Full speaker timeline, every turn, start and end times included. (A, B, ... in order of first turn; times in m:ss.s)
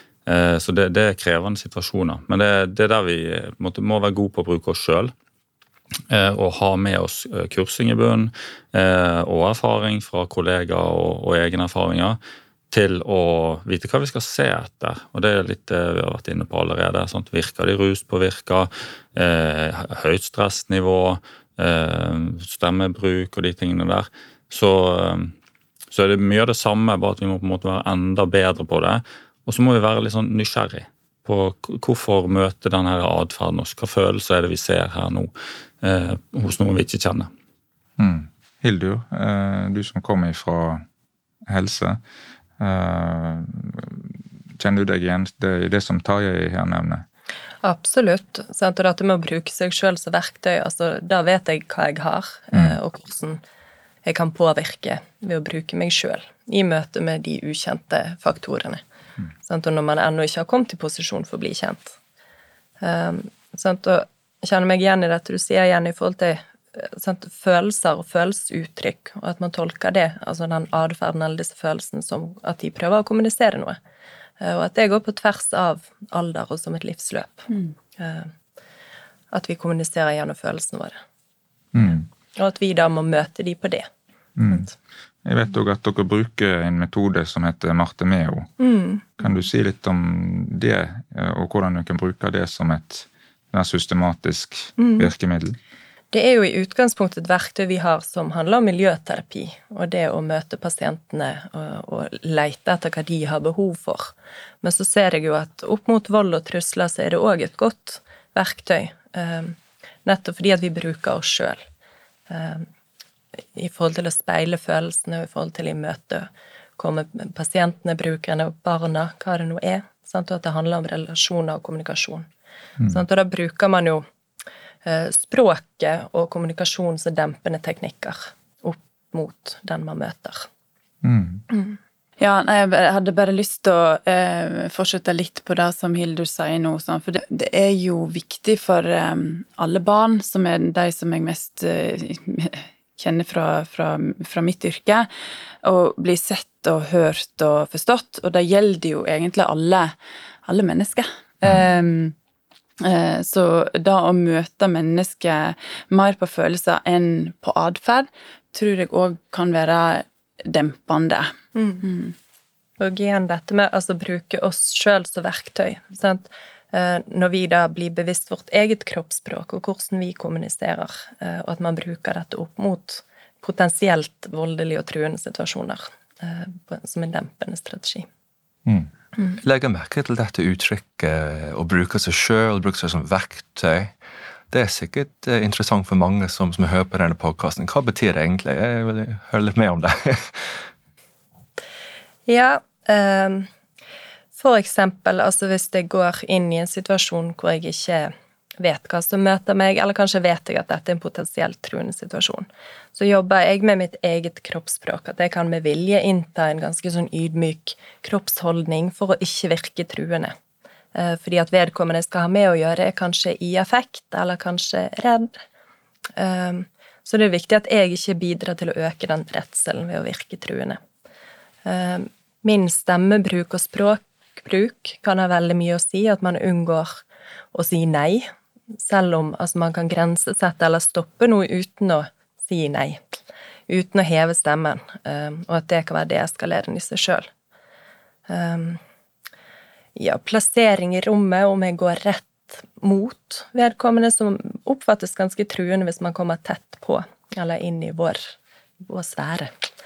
0:00.3-0:05.1 A
0:06.1-0:12.2 A
0:12.7-0:25.3 A
0:25.9-0:37.3 A
0:38.0-0:40.8 B
0:41.5-0:42.0 B
0:42.6-0:44.0 B
0:44.6-0:47.0 B
0:47.6-0:53.4 C
0:54.0-0:58.8 C
0:59.4-1:02.0 C
1:02.8-1:13.8 C
1:14.4-1:18.3 C
1:19.3-1:21.0 C
1:21.7-1:22.1 B
1:22.4-1:23.9 C
1:24.4-1:24.7 B
1:25.2-1:28.5 B
1:28.6-1:29.2 C
1:29.2-1:35.6 B
1:34.8-1:35.1 C
1:36.1-1:51.6 C
1:52.3-1:52.7 C
1:53.6-2:02.3 C
2:02.9-2:04.0 C
2:04.8-2:10.5 C
2:11.0-2:11.4 B
2:12.2-2:25.1 D
2:25.6-2:32.2 D
2:32.8-2:42.1 D
2:41.6-2:41.8 C
2:42.8-2:58.1 C
2:59.4-3:04.0 E
3:04.5-3:10.6 E
3:12.3-3:13.5 C
3:14.3-3:30.4 C
3:31.0-3:35.4 C
3:36.2-3:40.8 C
3:41.6-3:53.0 C
3:53.7-3:57.3 C
3:58.3-3:58.8 C
4:00.0-4:09.5 C